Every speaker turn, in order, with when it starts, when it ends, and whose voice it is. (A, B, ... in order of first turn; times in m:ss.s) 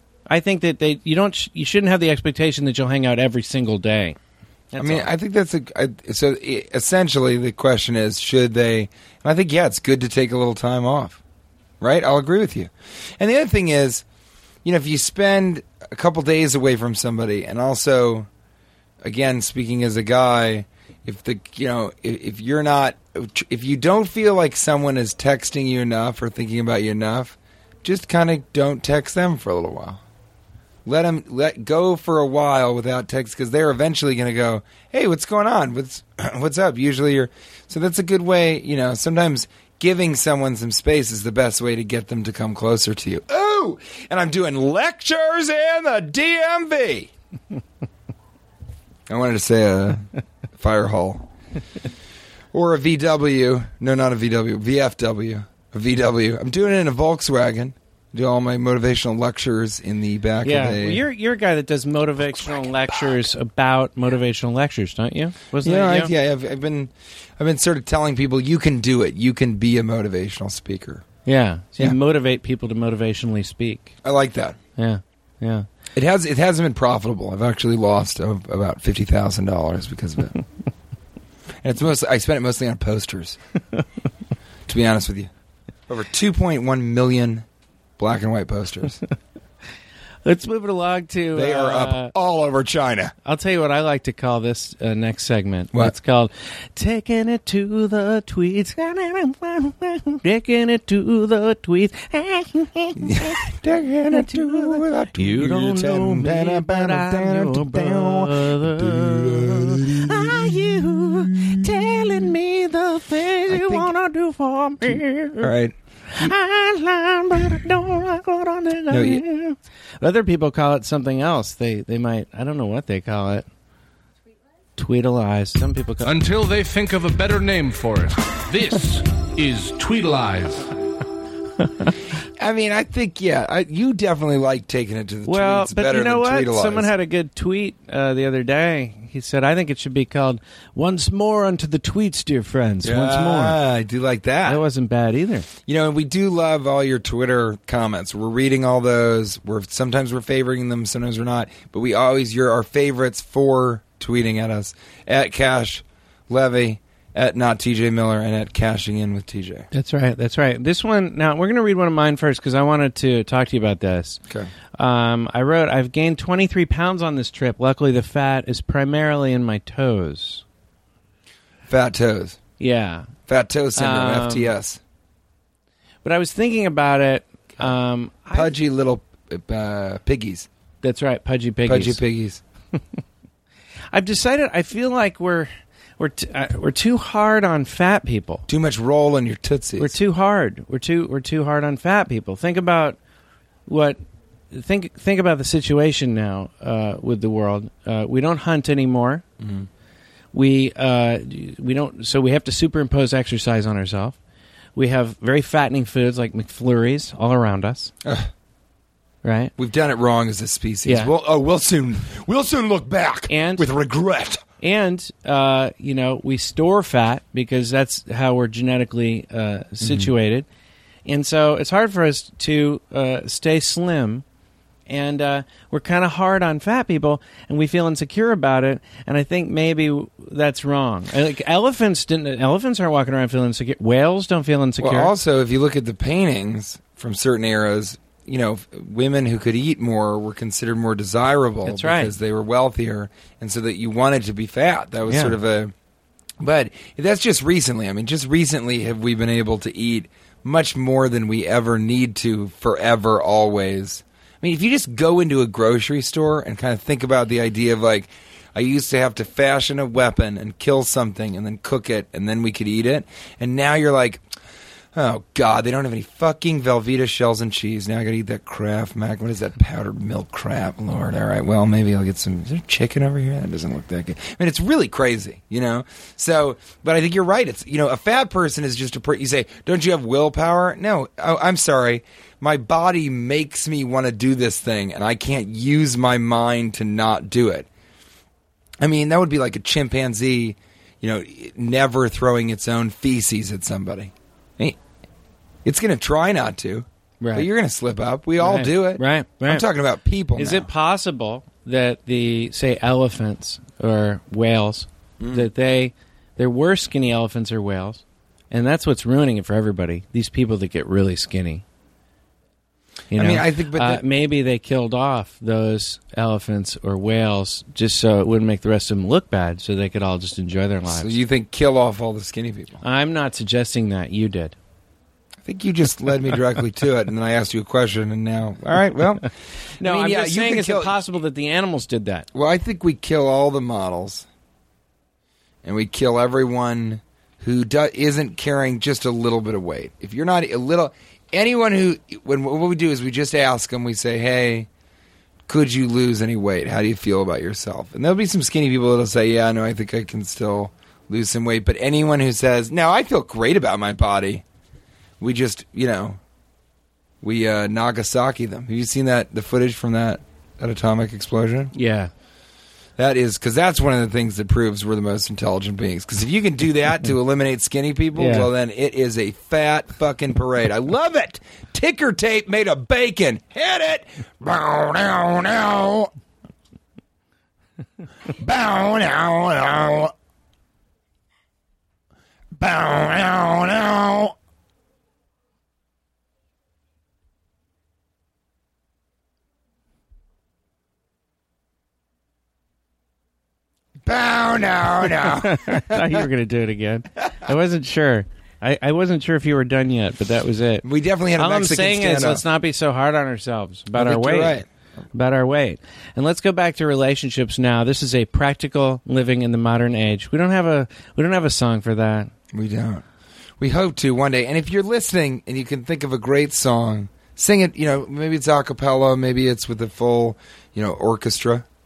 0:00.3-0:04.2 A
0:04.7-0:05.1 A
0:04.8-0:11.2 B
0:11.8-0:14.0 B
0:14.6-0:18.3 B
0:19.0-0:30.0 B
0:30.8-0:47.1 B
0:49.1-0:51.3 B
0:52.5-1:01.0 B
1:00.4-1:06.1 A
1:05.6-1:11.0 B
1:11.2-1:14.0 A
1:14.0-1:14.6 B
1:14.8-1:15.6 A
1:15.9-1:20.4 B
1:21.6-1:23.4 B
1:24.7-1:25.3 B
1:25.9-1:27.4 B
1:28.0-1:29.0 B
1:30.2-1:32.1 A
1:31.3-1:33.1 B
1:33.2-1:55.5 A
1:43.0-1:52.3 B
1:53.5-1:53.9 B
1:54.9-1:56.3 B
1:56.1-2:03.5 A
1:58.9-1:59.2 B
2:04.8-2:06.1 A
2:06.0-2:10.7 C
2:12.3-2:16.9 B
2:15.2-2:23.6 A
2:22.8-2:24.6 B
2:24.4-2:25.5 A
2:25.6-2:39.7 B
2:39.7-2:44.2 A
2:44.8-2:50.4 A
2:51.7-2:52.4 B
2:52.6-2:53.1 A
2:53.3-2:54.8 B
2:53.7-2:54.5 A
2:56.0-2:58.5 A
2:58.3-3:00.5 B
3:00.8-3:02.0 A
3:01.6-3:02.4 B
3:03.9-3:08.5 A
3:08.5-3:09.9 B
3:09.8-3:13.0 A
3:13.7-3:14.0 A
3:14.5-3:19.2 A
3:19.4-3:19.7 B
3:20.3-3:24.2 A
3:24.8-3:27.9 A
3:28.0-3:28.3 B
3:29.2-3:29.5 A
3:29.6-3:34.4 B
3:30.8-3:31.1 A
3:33.3-3:33.7 A
3:34.6-3:40.4 A
3:39.8-3:40.1 B
3:41.0-3:44.2 A
3:44.9-3:55.1 A
3:54.8-4:05.7 B
4:01.6-4:02.1 A
4:05.1-4:05.4 A
4:06.4-4:24.2 B
4:24.9-4:47.7 B
4:48.8-4:54.8 B
4:55.6-5:00.7 B
4:57.2-4:57.5 A
4:58.4-4:59.6 A
5:00.4-5:11.6 A
5:05.2-5:05.5 B
5:13.1-5:14.0 B
5:13.1-5:21.2 A
5:20.9-5:22.8 B
5:22.8-5:24.6 A
5:25.4-5:31.0 B
5:29.8-5:32.2 A
5:32.3-5:34.3 B
5:35.6-5:44.7 B
5:45.5-5:54.4 B
5:55.2-5:56.2 B
5:57.2-6:01.7 B
6:01.7-6:02.1 A
6:03.0-6:16.1 B
6:08.2-6:08.5 A
6:18.3-6:20.1 B
6:22.5-6:24.3 B
6:34.0-6:36.3 B
6:35.0-6:40.8 A
6:40.8-6:42.4 B
6:41.4-6:44.6 A
6:43.9-6:44.6 B
6:45.1-6:52.3 A
6:52.5-6:53.0 B
6:53.6-7:01.6 B